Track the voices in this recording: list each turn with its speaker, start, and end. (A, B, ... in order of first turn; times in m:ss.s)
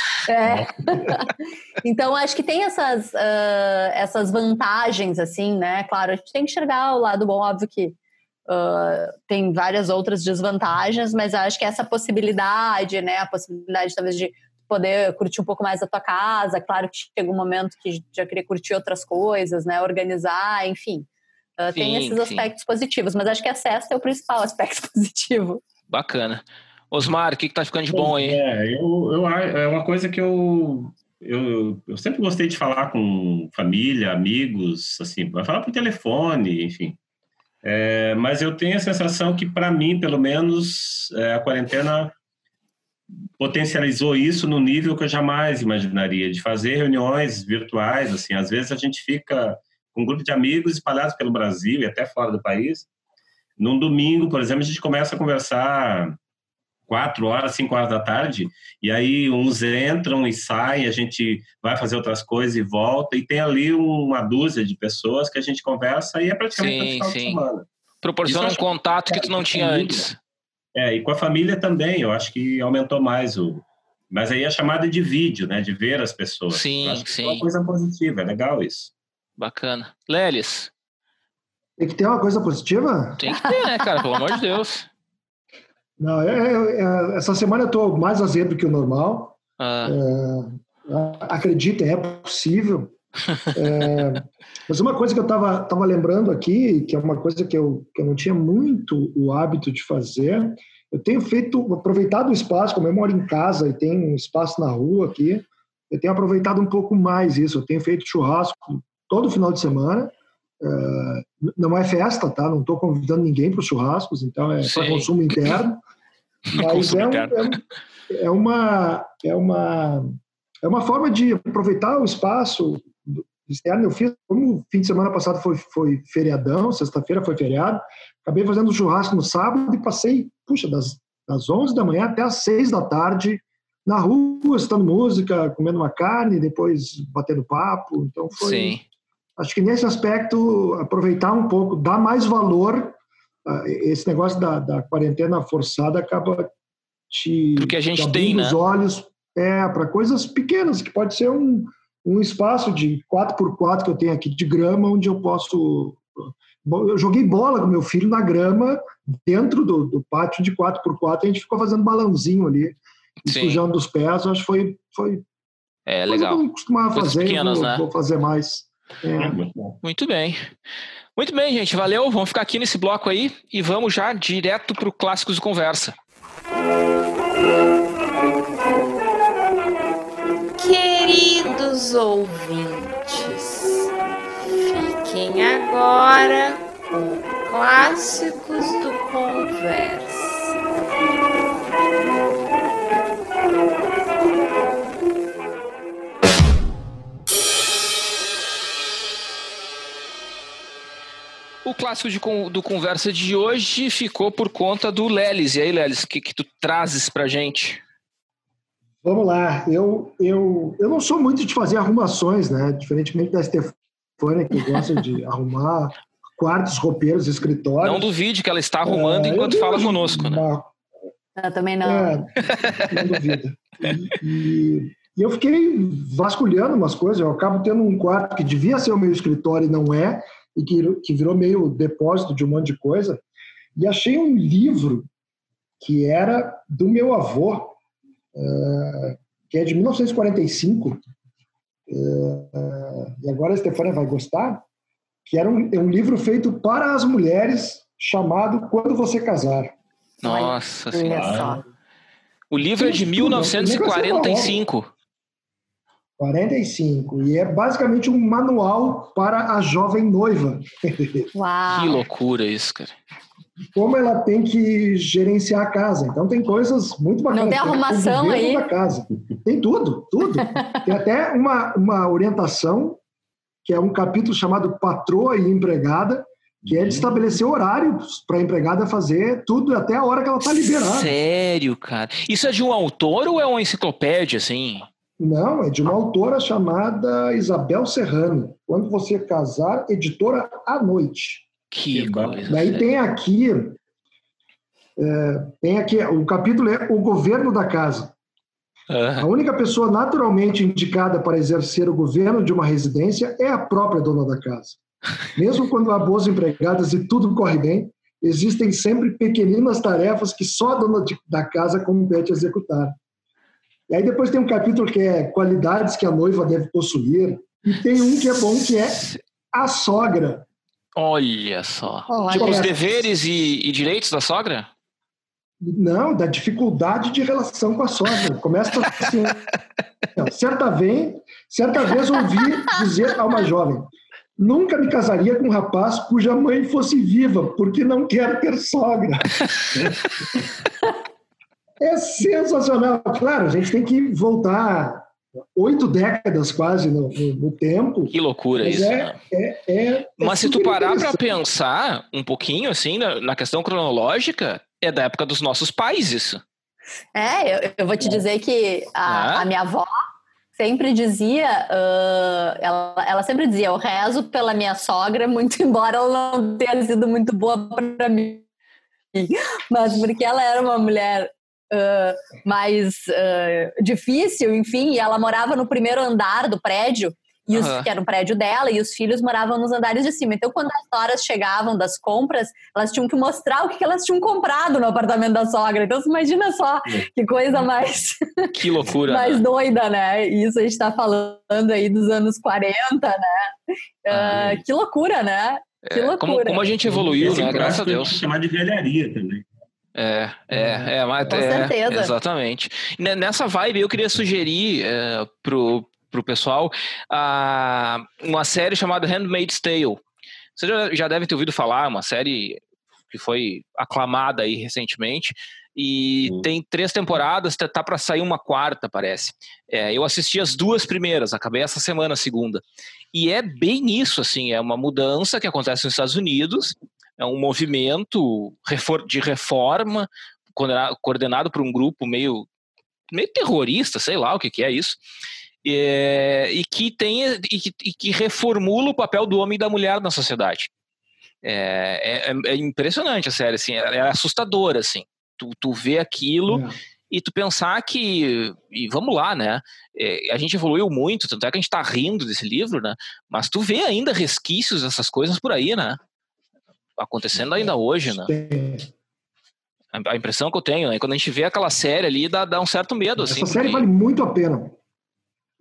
0:00.3-0:07.9 A
0:00.5-0:00.7 B
0:08.5-0:21.1 A
0:21.6-0:25.6 A
0:21.8-0:22.5 C
0:25.9-0:28.4 C
0:27.9-0:37.0 B
0:37.6-0:42.1 B
0:43.4-0:52.9 B
0:53.6-0:56.2 B
0:56.9-1:07.7 B
1:06.6-1:07.4 C
1:08.0-1:10.2 C
1:08.2-1:10.1 B
1:10.7-1:18.9 B
1:16.5-1:17.4 C
1:19.4-1:20.7 C
1:21.8-1:23.3 D
1:23.2-1:24.9 C
1:26.0-1:32.9 D
1:29.6-1:30.0 C
1:33.5-1:55.8 D
1:54.6-1:55.1 C
1:56.5-1:57.6 C
1:56.6-2:18.8 D
2:18.4-2:18.8 C
2:19.4-2:26.5 D
2:27.1-2:45.2 D
2:27.6-2:28.6 C
2:43.2-2:43.6 C
2:45.9-2:47.8 C
2:46.1-2:49.4 D
2:49.2-2:49.8 B
2:49.8-2:50.5 C
2:51.2-2:55.9 C
3:00.5-3:03.9 E
3:04.6-3:06.6 E
3:07.4-3:10.5 E
3:21.6-3:27.8 C
3:29.0-3:38.1 D
3:37.8-3:40.4 C
3:38.8-3:40.7 D
3:41.4-3:42.2 A
3:41.8-3:53.2 D
3:42.6-3:42.9 C
3:53.8-3:55.1 D
3:55.8-3:57.8 D
3:58.3-4:01.1 D
4:01.9-4:04.6 D
4:05.2-4:09.8 D
4:10.2-4:11.5 C
4:10.2-4:11.6 A
4:11.1-4:11.6 B
4:12.5-4:14.9 C
4:12.8-4:14.6 D
4:16.2-4:21.3 D
4:21.3-4:22.0 A
4:21.7-4:22.9 C
4:23.7-4:33.0 D
4:27.3-4:28.6 A
4:30.4-4:30.9 A
4:33.6-4:41.1 D
4:36.7-4:37.0 B
4:40.5-4:44.9 C
4:45.2-4:51.4 D
4:51.7-4:52.8 C
4:51.9-4:52.4 B
4:52.5-4:53.8 D
4:55.0-4:58.1 D
4:58.9-4:59.3 C
4:59.2-5:04.8 D
5:05.3-5:13.0 D
5:13.9-5:20.4 D
5:18.0-5:19.2 C
5:21.0-5:24.7 C
5:22.1-5:22.6 A
5:22.1-5:22.8 D
5:25.6-5:29.5 D
5:30.2-5:39.9 D
5:41.8-5:51.4 D
5:48.1-5:49.2 C
5:50.2-5:56.4 C
5:57.1-5:59.9 A
5:59.0-5:59.5 C
6:00.5-6:08.4 A
6:09.1-6:28.5 A
6:17.5-6:17.9 C
6:28.5-6:29.4 C
6:29.1-6:33.5 A
6:34.0-6:36.7 A
6:34.1-6:34.4 C
6:35.8-6:38.2 C
6:36.8-6:39.4 B
6:39.9-6:50.0 C
6:41.2-6:42.1 A
6:50.6-7:12.5 C
7:13.1-7:15.0 C
7:15.6-7:20.7 C
7:21.4-7:36.0 C
7:26.5-7:26.7 D
7:37.0-7:38.3 C
7:37.6-7:38.9 D
7:39.9-7:43.9 C
7:43.2-7:44.8 D